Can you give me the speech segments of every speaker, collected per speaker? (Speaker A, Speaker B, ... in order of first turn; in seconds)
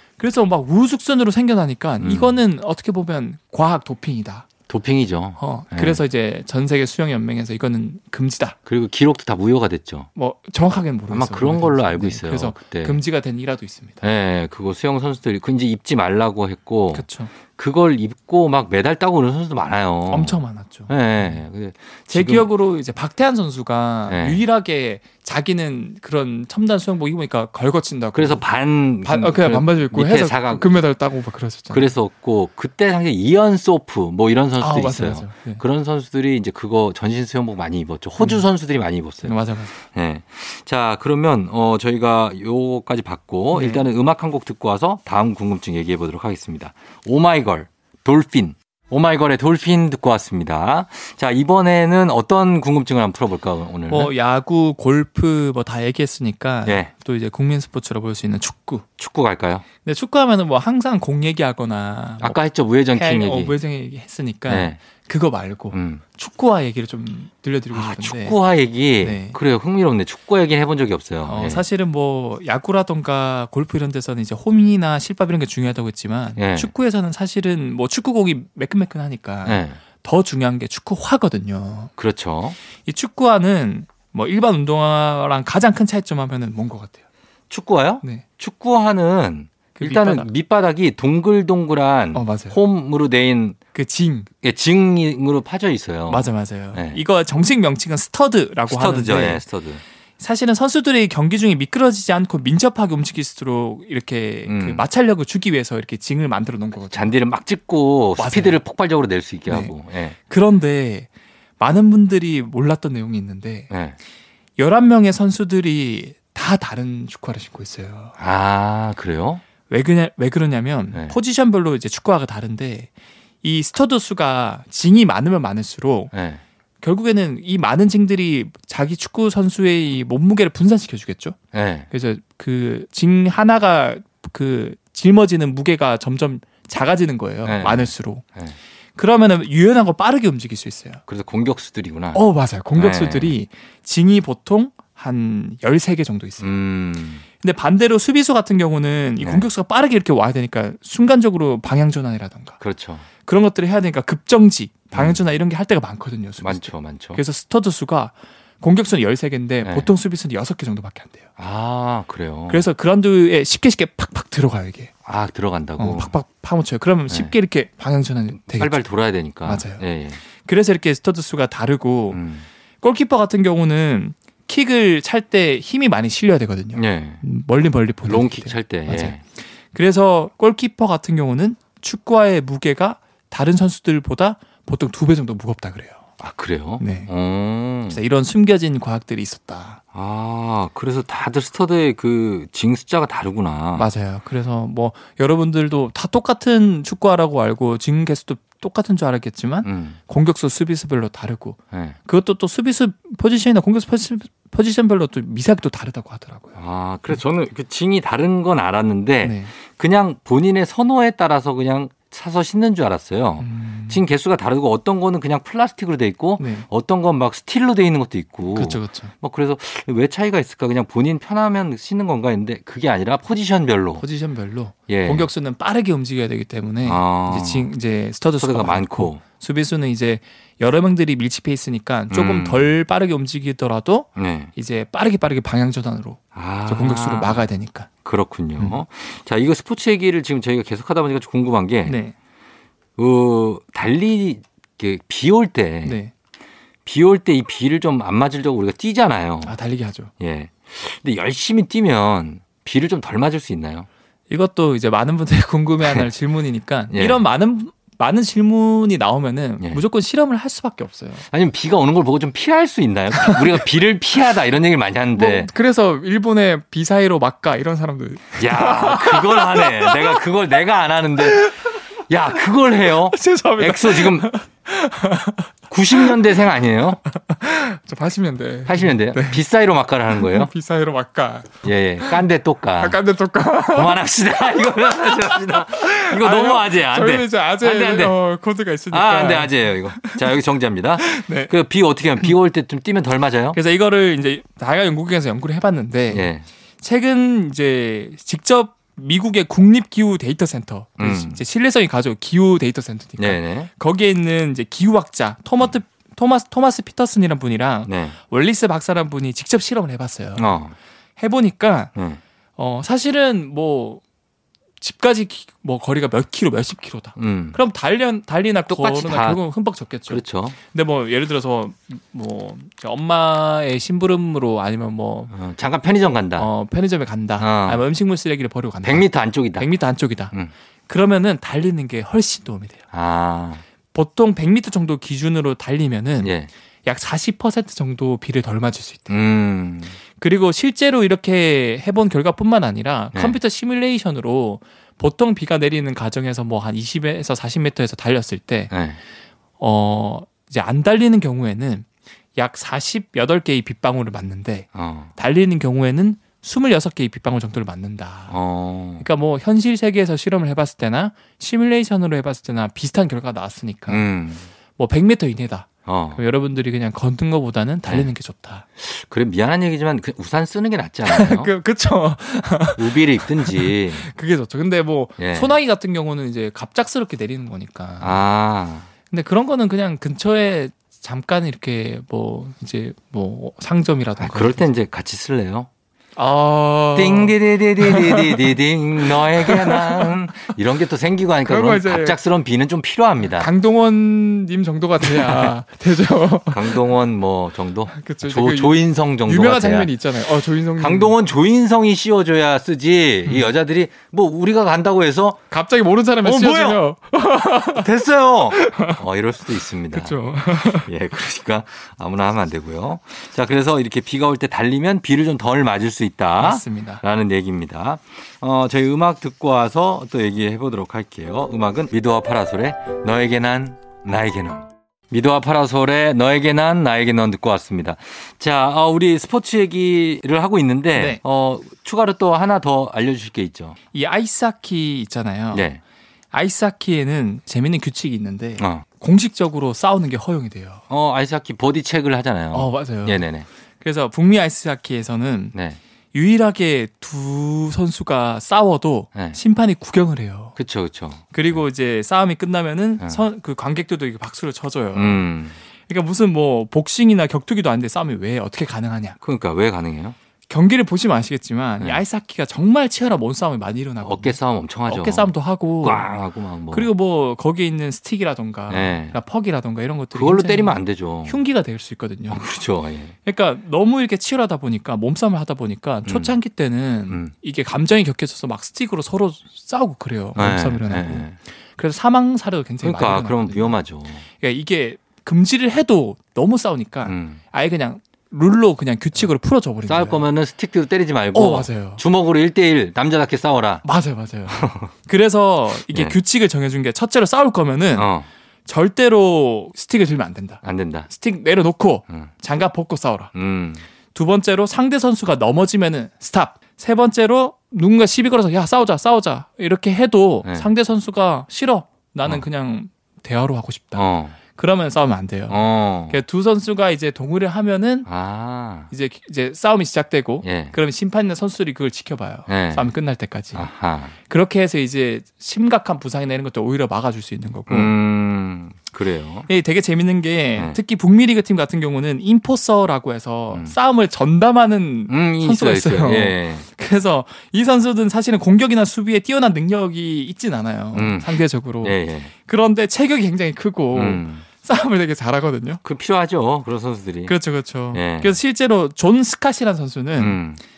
Speaker A: 0.2-4.5, 5.4-8.6, 10.2-14.0, 16.9-17.3, 20.1-21.4, 22.1-28.4, 29.0-31.9, 34.6-35.6, 38.2-38.4, 39.2-39.8, 43.5-43.8, 53.9-58.9, 59.9-62.4, 63.0-68.4, 69.0-69.4, 71.2-81.9, 82.9-87.0, 89.8-90.3, 92.1-92.6, 93.7-94.3, 96.1-99.4, 100.2-107.2, 108.2-108.6, 109.5-109.7, 110.3-111.1, 111.6-113.7, 114.6-118.2, 119.7-122.9, 123.4-126.1, 126.8-131.4, 131.9-138.2, 139.0-141.0, 142.1-146.5, 147.4-152.6, 153.2-161.3, 162.5-164.9, 165.8-168.8, 169.4-172.2, 172.8-186.1, 186.8-187.1, 187.9-189.8, 193.8-206.6, 209.2-209.5, 213.4-214.0, 216.4-216.7, 218.5-219.1, 224.0-237.9, 241.9-242.1, 245.8-246.1, 249.4-250.1, 254.3-261.3, 263.1-263.6, 265.1-270.2, 271.2-271.7, 273.1-275.4, 277.2-279.4, 280.1-282.2, 282.8-284.0, 284.7-290.2, 291.0-291.5, 293.5-296.3, 296.8-310.6, 311.2-311.9, 312.6-314.0, 314.8-325.3, 326.4-330.4, 330.9-332.8, 333.9-336.3, 336.9-339.1, 340.2-348.7, 349.6-358.4, 359.0-364.0, 364.8-368.6, 371.1-378.2, 379.1-384.7, 386.2-390.5, 391.4-392.2, 393.4-396.8, 397.9-401.1, 405.5-407.9, 408.5-409.0, 409.9-410.9, 416.4-417.0, 430.9-431.2, 433.9-435.7, 436.3-440.8, 442.5-443.3, 443.8-445.6, 446.1-450.6, 451.3-455.2, 455.9-459.2, 460.5-466.1, 466.7-472.4, 473.2-483.8, 484.4-490.3, 491.3-492.0, 493.8-498.1, 498.7-503.3, 504.1-518.1, 518.9-523.7, 524.3-527.9, 529.5-545.8, 547.3-550.4
Speaker B: 2.0-2.4, 4.7-6.0, 8.7-10.1, 11.1-13.0, 14.0-22.5, 24.1-24.4, 28.1-30.8, 31.7-54.1, 59.0-59.6, 62.2-63.5, 64.5-64.8, 65.7-66.0, 67.7-71.7, 76.4-76.7, 79.5-79.8, 82.0-82.6, 87.5-93.6, 94.4-97.0, 98.7-99.8, 104.5-104.9, 106.9-110.2, 113.7-114.0, 118.2-119.4, 126.1-126.4, 131.5-131.9, 137.4-138.6, 141.1-142.2, 142.7-143.4, 146.4-147.2, 149.2-149.5, 152.6-153.1, 154.9-155.2, 156.4-157.2, 159.6-159.9, 161.4-162.7, 165.1-166.1, 168.5-170.2, 172.1-172.5, 176.8-177.2, 178.1-179.2, 186.2-188.0, 189.9-193.9, 199.6-200.0, 201.7-202.0, 206.6-224.0, 224.9-225.3, 226.8-227.7, 228.4-229.2, 232.1-232.7, 234.2-234.5, 236.3-237.5, 238.0-241.9, 243.0-246.0, 246.9-249.6, 250.2-253.9, 256.9-257.2, 261.3-265.5, 268.4-274.3, 275.7-277.0, 278.7-280.5, 281.6-283.0, 283.7-288.2, 288.9-293.6, 296.1-296.5, 301.0-301.4, 303.2-303.7, 307.9-308.2, 310.4-310.7, 317.2-317.6, 318.7-319.4, 320.1-320.6, 325.3-326.5, 327.4-327.8, 328.8-329.7, 332.9-333.6, 336.2-336.5, 339.1-340.0, 348.7-349.0, 354.7-355.1, 358.3-359.1, 363.9-364.5, 365.9-366.2, 368.8-371.5, 372.8-374.1, 375.2-375.6, 378.0-378.9, 384.2-385.7, 386.9-393.5, 395.0-395.5, 396.5-405.4, 406.2-406.8, 407.6-433.8, 435.5-435.8, 438.6-438.9, 440.9-443.5, 445.5-445.8, 450.6-451.6, 454.9-455.6, 459.2-460.2, 464.0-466.9, 468.7-469.2, 470.1-471.4, 472.3-473.1, 476.1-476.4, 480.4-481.4, 482.8-484.2, 487.1-487.4, 489.9-493.8, 494.5-494.9, 495.9-496.2, 497.9-498.3, 500.6-501.1, 503.3-503.8, 514.0-514.4, 515.5-516.2, 518.1-518.9, 520.4-520.8, 522.5-522.9, 523.5-524.1, 527.7-529.5, 535.1-536.6, 540.9-542.3, 543.9-544.5, 545.8-547.3, 547.9-548.4, 550.2-550.6